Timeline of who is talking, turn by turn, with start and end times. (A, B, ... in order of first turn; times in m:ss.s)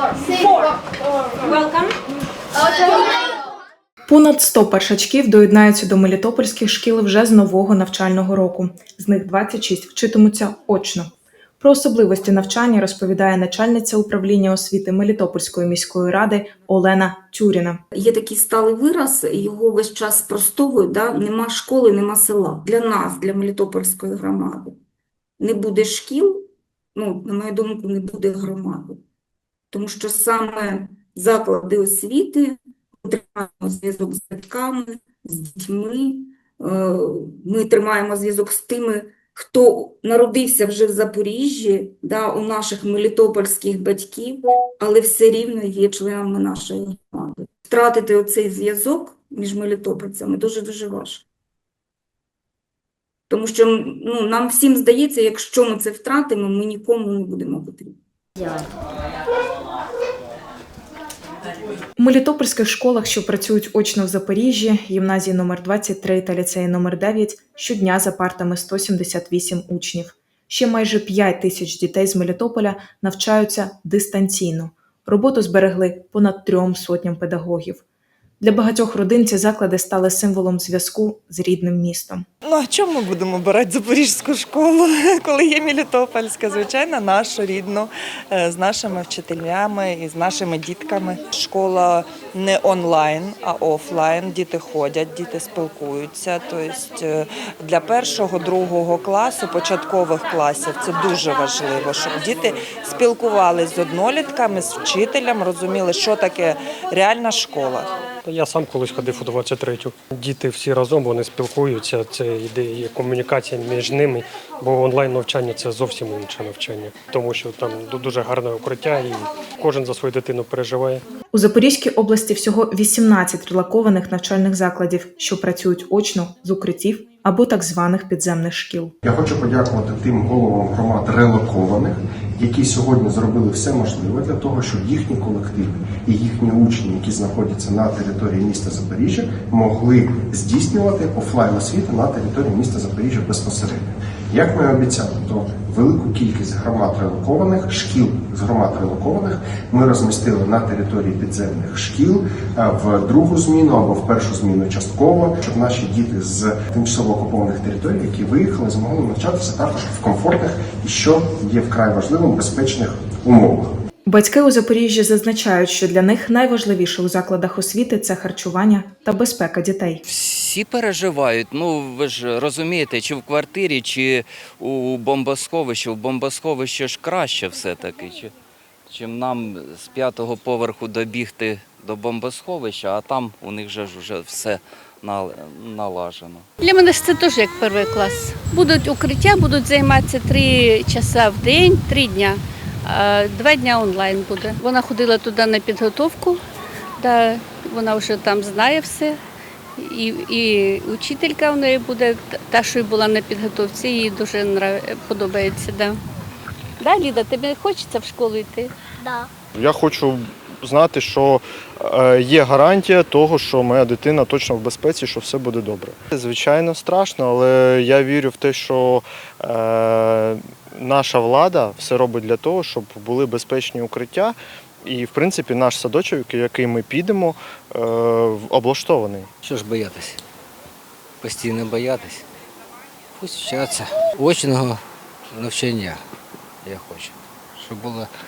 0:04.1-0:17.8 A
0:17.9-0:24.8 B
0:25.4-0:29.0 B
0:29.7-0:51.2 B
0:53.3-0:58.0 B
1:02.0-1:17.8 A
1:18.4-1:22.2 A
1:22.4-1:47.9 C
1:48.2-2:01.0 D
2:01.3-2:08.9 A
2:09.0-2:43.7 E
2:44.1-2:50.0 A
2:50.0-2:58.3 F
2:58.9-3:06.5 F
3:06.6-3:16.4 G
3:17.0-3:19.2 G
3:19.8-3:26.0 G
3:26.8-3:28.7 G
3:29.6-3:49.3 H
3:49.4-3:50.2 I
3:51.2-3:52.2 I
3:53.2-3:54.8 I
3:55.3-3:56.0 I
3:56.6-3:58.1 I